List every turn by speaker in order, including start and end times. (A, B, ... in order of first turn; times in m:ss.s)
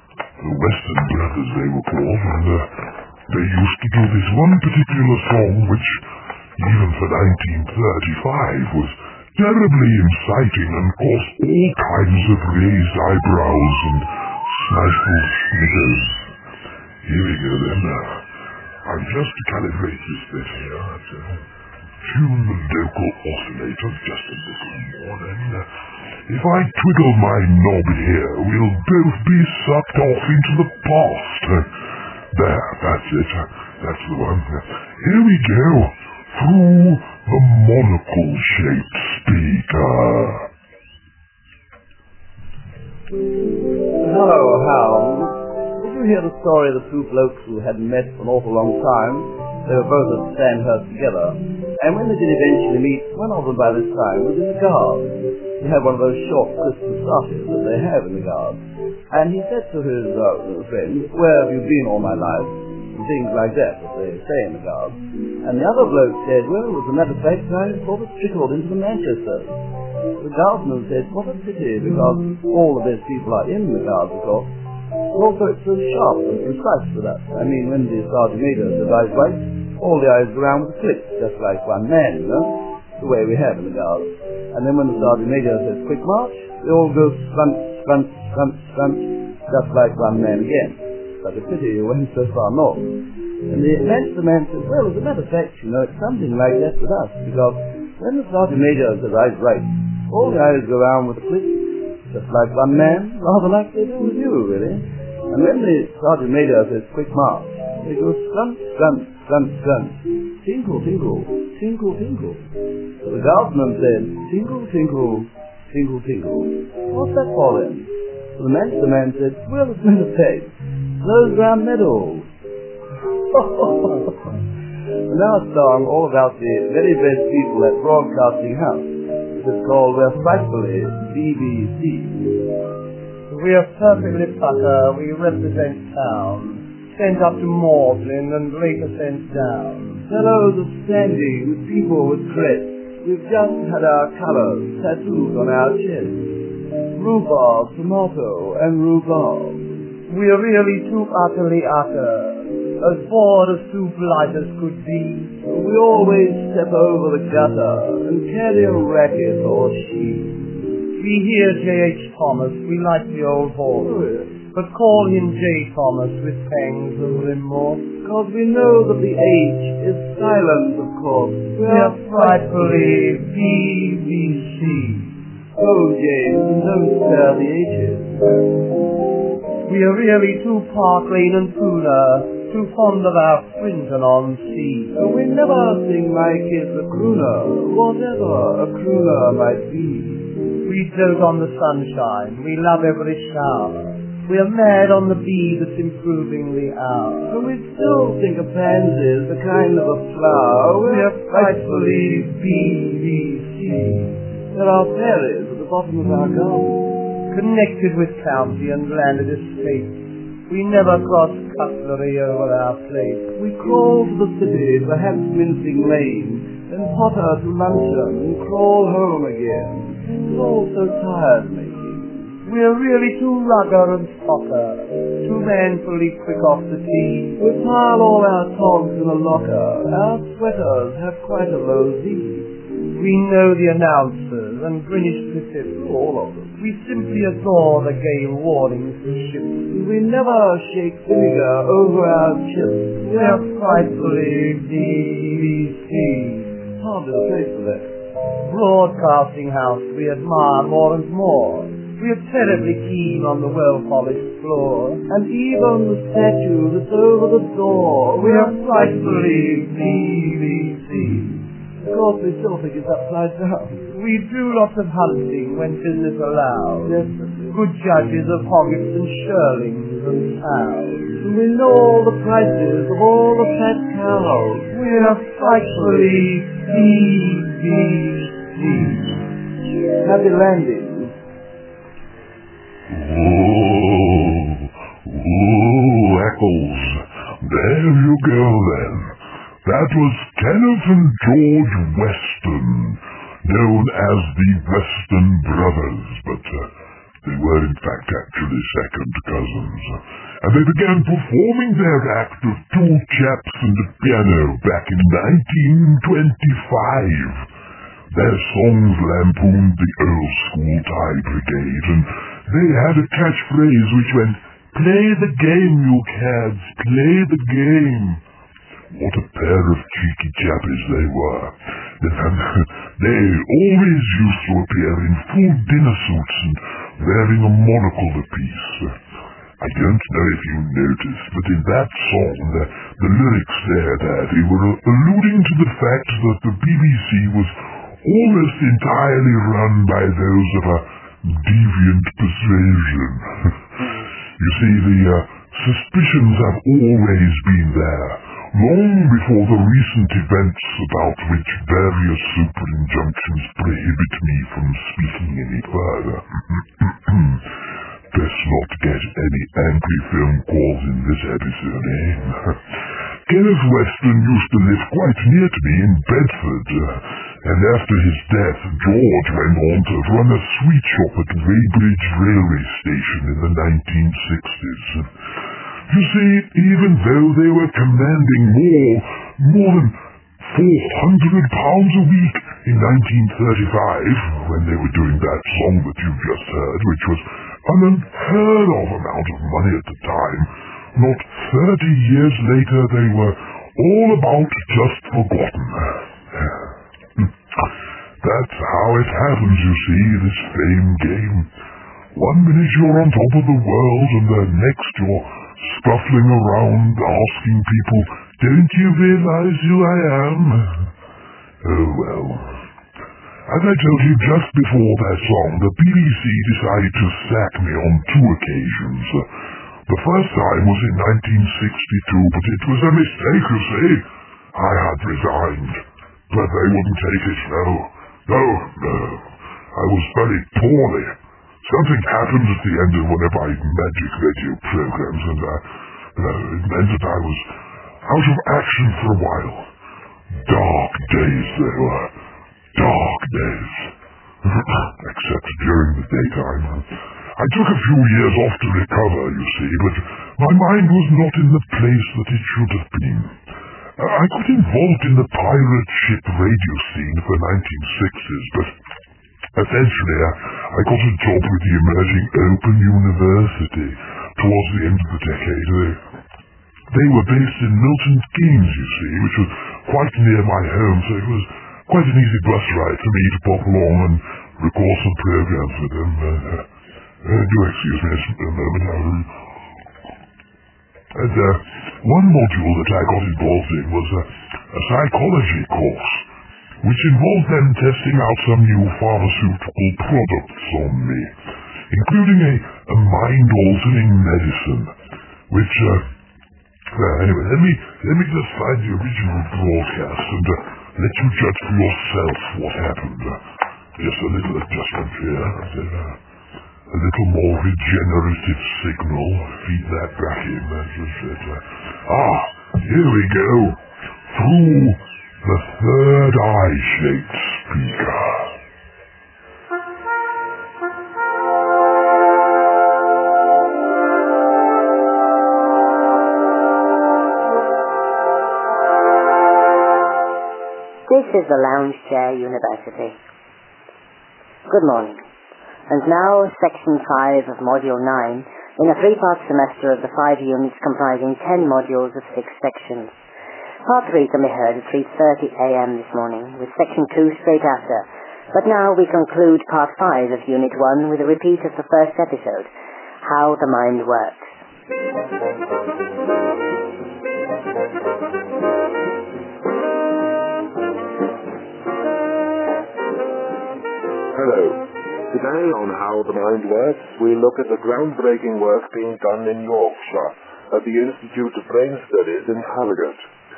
0:00.4-0:16.3 A
0:17.0-0:18.3 A
0:18.8-0:21.4 A
0:22.0-0:25.7 A
0:26.2-0:31.7 A
0:32.3-0:40.5 A
0:44.0-1:09.6 B
1:10.2-1:14.5 B
1:15.1-1:32.9 B
1:33.5-1:52.4 B
1:53.0-2:02.3 B
2:03.3-2:04.1 B
2:05.1-2:12.3 B
2:13.3-2:20.0 C
2:20.1-2:29.7 B
2:30.1-2:35.4 C
2:35.4-2:40.5 B
2:41.0-2:47.9 C
2:43.7-2:44.4 B
2:48.0-2:52.8 B
2:51.6-2:55.1 C
2:55.6-2:58.4 B
2:59.6-3:05.0 C
3:04.9-3:10.3 B
3:10.6-3:17.3 C
3:17.3-3:26.9 B
3:20.9-3:23.9 C
3:27.3-3:33.3 C
3:33.4-3:42.3 B
3:42.4-3:47.4 C
3:47.4-3:52.5 B
3:52.9-3:55.8 C
3:55.7-3:56.5 B
3:56.6-3:59.6 C
3:59.7-4:03.5 B
4:03.1-4:06.5 C
4:06.8-4:07.9 B
4:08.4-4:15.0 C
4:15.1-4:18.9 B
4:18.2-4:21.4 C
4:21.8-4:23.8 B
4:23.9-4:31.2 C
4:26.8-4:27.5 B
4:31.2-4:34.8 B
4:34.7-4:39.1 C
4:35.4-4:36.2 B
4:40.0-4:41.1 B
4:42.9-4:56.7 A
4:57.2-5:07.5 A
5:08.1-5:18.2 A
5:18.9-5:29.0 A
5:29.6-5:43.6 A
5:44.4-5:57.5 A
5:58.1-6:02.6 A
6:03.2-6:15.1 A
6:15.9-6:37.7 A
6:38.2-6:41.5 A
6:42.1-6:50.9 A
6:51.6-6:52.6 A
6:53.5-6:59.3 A
6:59.9-7:17.5 A
7:18.0-7:19.7 A
7:20.3-7:22.1 A
7:22.7-7:33.4 A
7:34.0-7:38.8 A
7:39.5-7:46.0 A
7:46.9-7:56.7 A
7:57.2-7:59.3 A
8:01.1-8:06.2 A
8:06.8-8:11.3 A
8:11.9-8:14.9 A
8:15.5-8:16.1 A
8:16.9-8:23.4 A
8:24.0-8:26.2 A
8:26.9-8:38.6 A
8:51.1-8:53.2 D
8:54.7-8:55.2 D
8:55.9-9:03.1 D
9:03.8-9:12.7 D
9:13.2-9:14.4 D
9:24.3-9:33.2 E